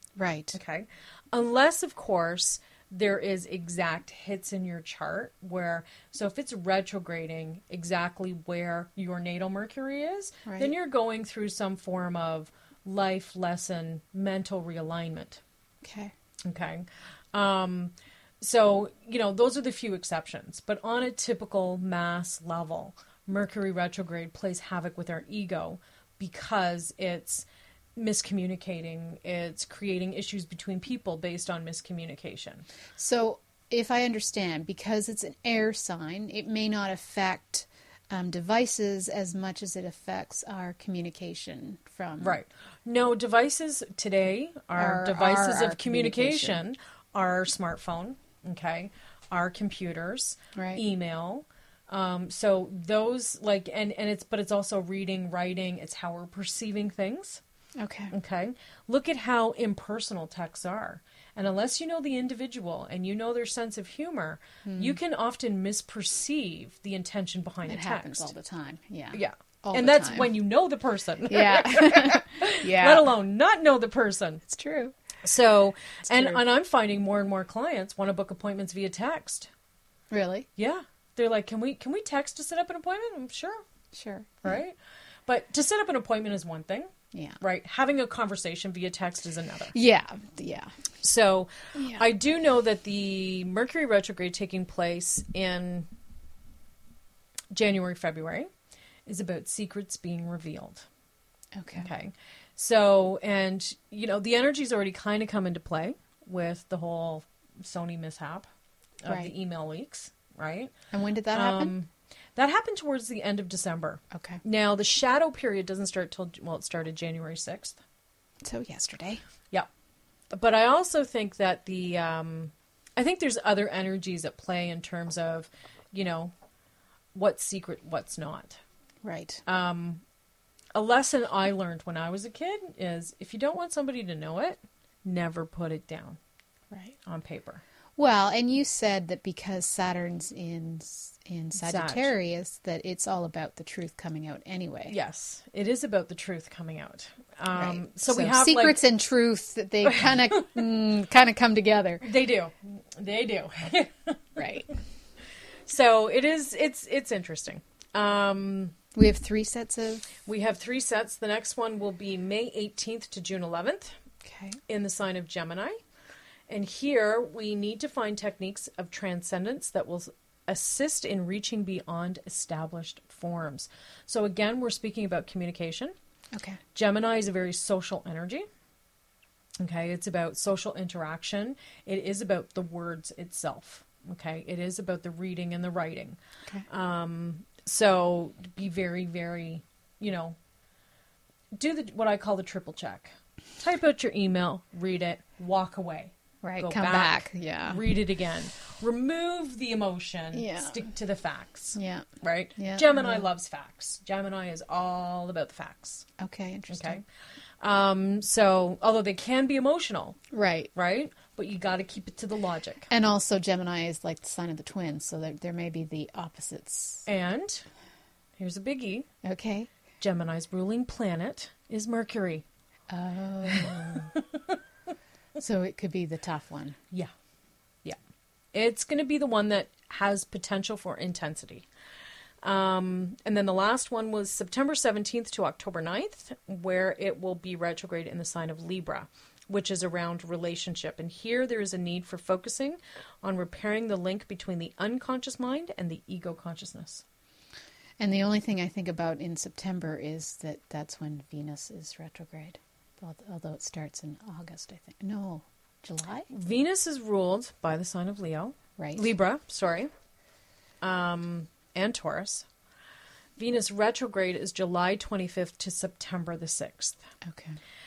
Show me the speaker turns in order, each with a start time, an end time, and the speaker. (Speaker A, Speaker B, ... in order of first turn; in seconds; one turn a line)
Speaker A: 0.1-0.6
Speaker B: 0.5-15.4
Speaker A: 10.4-10.7
Speaker A: 15.8-16.1
Speaker B: 16.4-32.6
Speaker A: 33.0-42.4
Speaker B: 42.2-57.4
Speaker A: 44.8-46.6
Speaker A: 50.5-50.8
Speaker A: 57.8-58.1
Speaker B: 58.1-68.3
Speaker A: 64.6-65.0
Speaker A: 67.6-70.4
Speaker B: 69.1-74.4
Speaker A: 71.3-73.1
Speaker A: 74.4-74.9
Speaker B: 75.2-79.5
Speaker A: 76.1-76.4
Speaker A: 80.1-80.5
Speaker B: 80.6-83.6
Speaker A: 83.9-84.6
Speaker B: 84.4-89.7
Speaker A: 87.1-87.4
Speaker A: 89.7-90.8
Speaker B: 91.0-95.9
Speaker A: 91.7-92.0
Speaker B: 97.5-98.5
Speaker B: 99.0-100.9
Speaker A: 101.5-101.9
Speaker B: 101.8-108.5
Speaker B: 109.0-110.7
Speaker A: 109.1-109.3
Speaker A: 110.9-111.7
Speaker B: 111.3-117.8
Speaker A: 114.1-114.4
Speaker A: 118.4-119.2
Speaker B: 120.3-126.3
Speaker B: 127.1-128.6
Speaker A: 129.0-129.4
Speaker B: 129.4-130.0
Speaker B: 130.7-136.2
Speaker A: 136.7-136.9
Speaker B: 137.0-137.6
Speaker A: 138.0-144.9
Speaker B: 141.6-142.1
Speaker B: 144.9-148.8
Speaker A: 147.5-152.1
Speaker B: 149.9-150.1
Speaker B: 152.0-154.4
Speaker A: 154.3-154.7
Speaker B: 155.7-158.8
Speaker A: 158.9-160.1
Speaker B: 160.2-163.9
Speaker A: 164.2-164.6
Speaker B: 164.7-165.8
Speaker B: 166.5-175.9
Speaker A: 176.3-176.6
Speaker B: 176.7-178.4
Speaker B: 179.6-190.4
Speaker B: 191.5-206.1
Speaker A: 196.4-197.8
Speaker A: 200.3-200.8
Speaker A: 201.7-203.3
Speaker A: 206.2-207.0
Speaker B: 206.7-207.0
Speaker B: 207.6-210.2
Speaker A: 210.3-210.7
Speaker B: 210.7-212.9
Speaker A: 212.9-217.1
Speaker B: 217.1-217.7
Speaker B: 218.4-219.1
Speaker A: 219.2-219.7
Speaker B: 220.0-222.4
Speaker A: 222.9-224.1
Speaker B: 223.4-224.6
Speaker A: 225.4-226.8
Speaker B: 228.5-231.7
Speaker B: 232.4-247.0
Speaker A: 248.0-256.3
Speaker B: 256.3-259.9
Speaker A: 258.8-259.1
Speaker B: 260.8-262.5
Speaker B: 263.4-267.0
Speaker A: 267.2-267.6